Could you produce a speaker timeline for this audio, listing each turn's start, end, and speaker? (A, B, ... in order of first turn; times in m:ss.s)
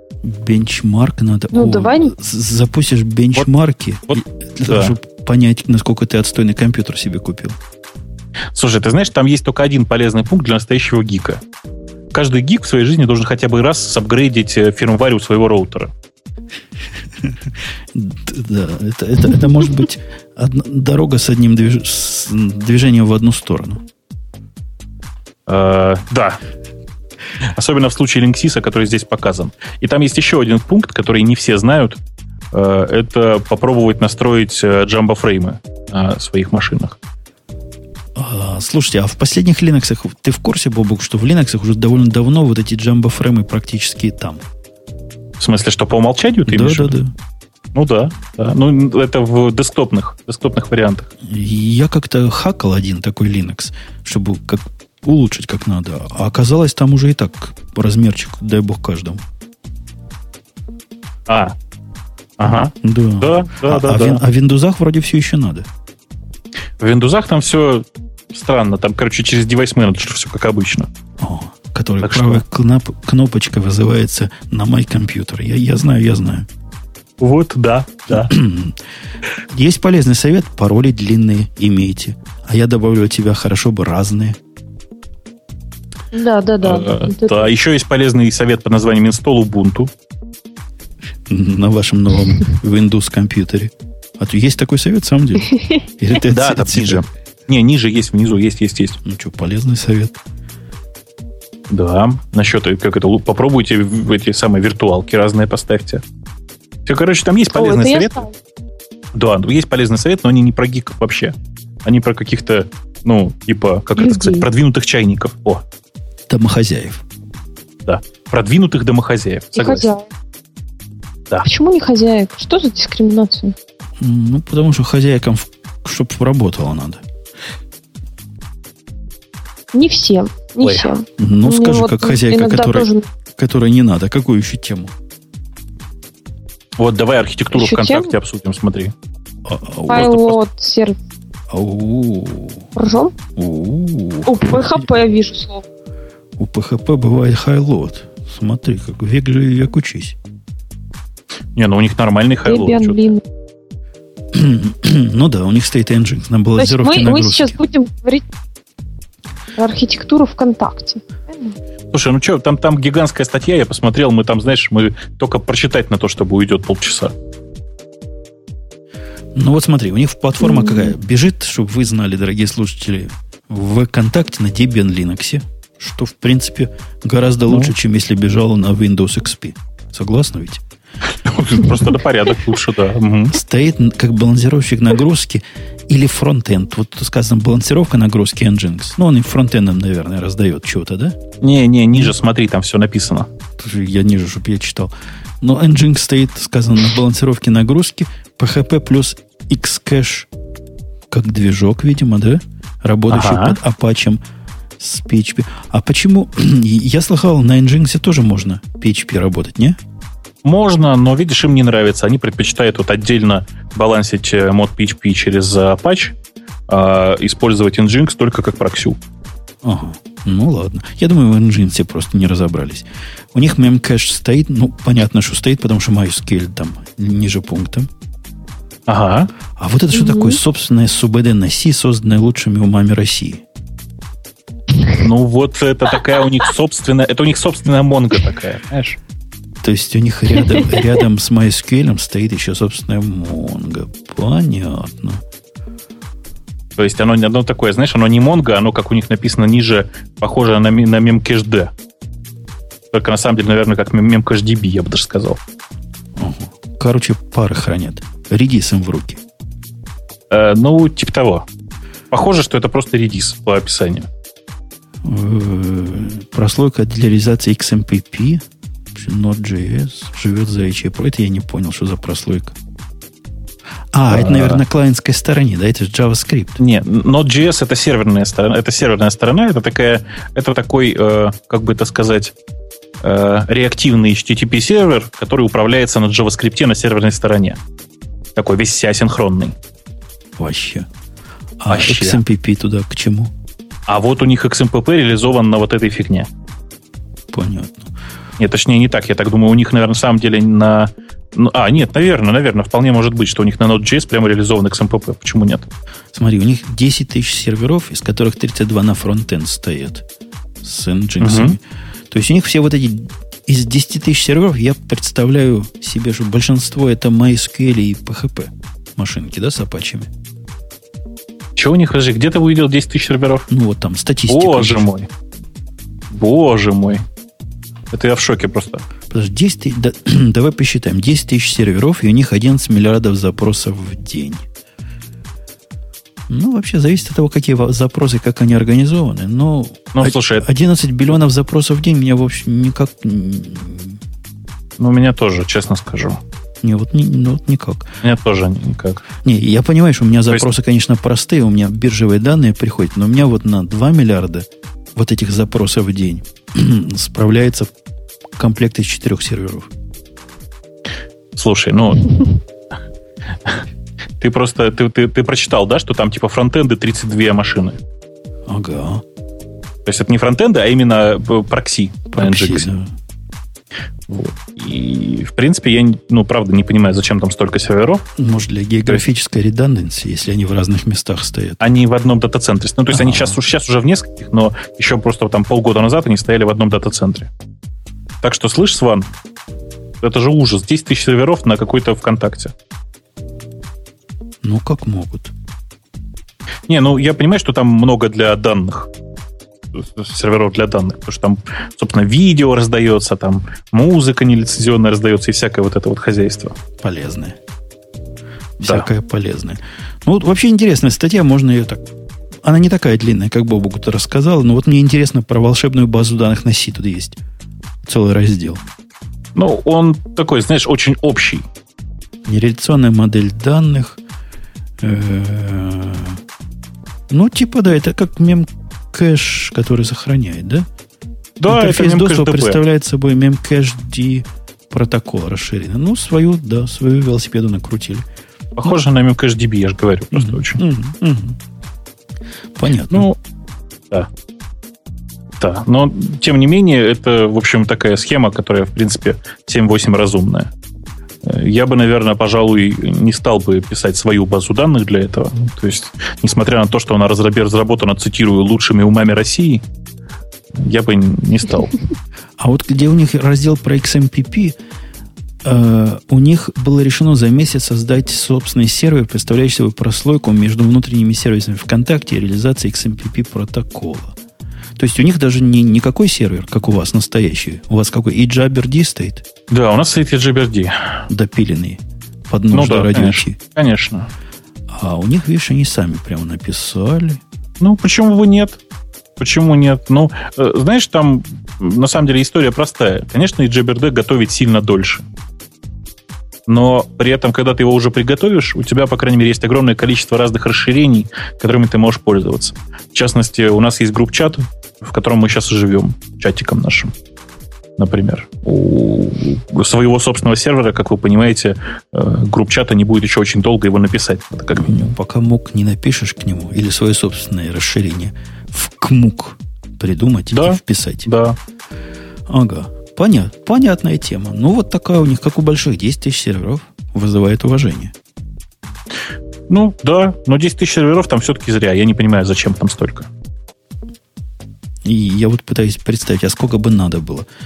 0:00.2-0:07.6 A
0:01.5-0:02.1 B
0:04.1-0:05.0 C
0:08.5-0:11.4 C
0:12.1-0:15.9 C
0:18.0-0:23.8 A
0:25.5-0:26.4 C
0:27.6-0:32.0 C
0:32.5-0:37.0 C
0:38.2-0:44.4 A
0:45.4-0:47.0 C
0:46.5-0:47.1 A
0:47.8-0:51.1 C
0:51.2-0:59.2 A
1:01.3-1:01.6 C
1:02.4-1:04.2 C
1:02.8-1:05.7 A
1:06.8-1:10.9 C
1:11.2-1:16.5 A
1:12.0-1:12.4 C
1:17.2-1:18.3 C
1:18.1-1:18.8 A
1:19.5-1:24.4 A
1:26.1-1:27.5 B
1:26.6-1:29.9 C
1:31.3-1:37.0 A
1:36.2-1:39.0 C
1:39.0-1:40.2 A
1:41.7-1:46.0 C
1:46.9-1:48.2 C
1:47.5-1:48.3 B
1:49.2-1:55.6 C
1:54.0-1:54.5 B
1:56.3-1:57.0 A
1:57.9-1:59.9 C
1:59.6-2:00.1 B
2:01.4-2:03.6 B
2:04.0-2:07.0 A
2:09.7-2:13.1 B
2:10.6-2:10.9 C
2:11.2-2:14.9 A
2:16.8-2:18.9 C
2:17.5-2:18.1 B
2:19.5-2:20.2 A
2:19.9-2:21.0 B
2:19.9-2:20.4 C
2:21.5-2:22.7 A
2:22.8-2:23.1 B
2:23.4-2:24.8 A
2:24.3-2:25.7 B
2:26.4-2:30.2 A
2:31.6-2:33.2 C
2:32.4-2:33.2 B
2:34.3-2:37.6 A
2:36.6-2:38.3 B
2:39.6-2:41.6 B
2:41.9-2:47.1 C
2:49.4-3:00.6 A
2:50.4-2:50.9 B
3:01.1-3:03.4 C
3:03.3-3:11.2 A
3:11.4-3:13.3 C
3:13.6-3:20.3 A
3:21.1-3:24.2 A
3:23.1-3:23.6 C
3:24.8-3:29.8 A
3:30.4-3:36.2 C
3:36.7-3:39.0 C
3:39.6-3:47.9 A
3:48.9-3:49.3 C
3:49.6-3:53.4 A
3:49.9-3:50.4 B
3:54.9-3:59.0 C
3:59.6-4:05.2 A
4:06.8-4:11.7 C
4:12.9-4:15.4 C
4:16.2-4:19.2 A
4:20.3-4:21.5 C
4:22.1-4:24.1 C
4:25.0-4:28.4 A
4:29.0-4:32.6 A
4:33.9-4:36.6 A
4:34.1-4:34.6 C
4:36.6-4:42.3 C
4:43.0-4:47.6 C
4:48.4-4:49.6 C
4:50.4-4:50.9 A
4:51.6-4:53.3 A
4:51.7-4:52.2 C
4:53.9-4:56.3 C
4:57.3-4:57.9 A
4:58.4-5:05.7 C
5:06.1-5:10.0 A
5:10.6-5:11.6 A
5:11.2-5:11.6 C
5:12.1-5:20.1 A
5:21.6-5:23.5 C
5:23.5-5:24.8 A
5:24.3-5:25.1 C
5:26.1-5:27.0 C
5:27.9-5:28.8 C
5:29.1-5:34.4 A
5:36.3-5:44.0 A
5:39.9-5:40.5 C
5:44.8-5:46.2 C
5:46.6-5:47.9 A
5:48.0-5:49.0 C
5:49.2-5:57.7 A
5:58.4-5:59.7 A
6:01.4-6:02.4 C
6:04.2-6:07.8 C
6:08.5-6:09.0 A
6:09.9-6:12.7 C
6:12.1-6:12.9 A
6:14.1-6:18.0 C
6:18.2-6:21.6 A
6:21.6-6:27.3 C
6:22.9-6:23.4 A
6:28.2-6:29.1 C
6:30.0-6:32.5 C
6:34.4-6:35.3 A
6:36.7-6:38.9 C
6:39.7-6:46.6 C
6:46.8-6:47.4 A
6:48.6-6:51.9 A
6:52.4-6:57.2 A
6:57.8-6:58.6 A
6:59.4-7:01.4 C
7:02.3-7:04.0 A
7:04.8-7:06.2 A
7:07.1-7:10.7 A
7:11.4-7:12.6 C
7:11.5-7:18.0 A
7:18.6-7:20.6 C
7:20.1-7:21.4 A
7:22.6-7:23.1 A
7:22.9-7:23.2 C
7:25.4-7:30.5 C
7:31.2-7:39.6 C
7:40.6-7:41.8 C
7:42.4-7:44.6 A
7:45.4-7:54.2 A
7:54.8-7:59.3 A
7:59.5-8:01.0 C
8:01.1-8:03.4 A
8:02.5-8:04.1 C
8:04.7-8:07.2 A
8:07.6-8:08.6 C
8:09.2-8:15.0 C
8:16.5-8:26.9 C
8:27.8-8:35.0 C
8:34.6-8:41.1 A
8:40.3-8:41.4 C
8:42.3-8:47.9 A
8:49.5-8:53.1 C
8:54.8-8:57.3 A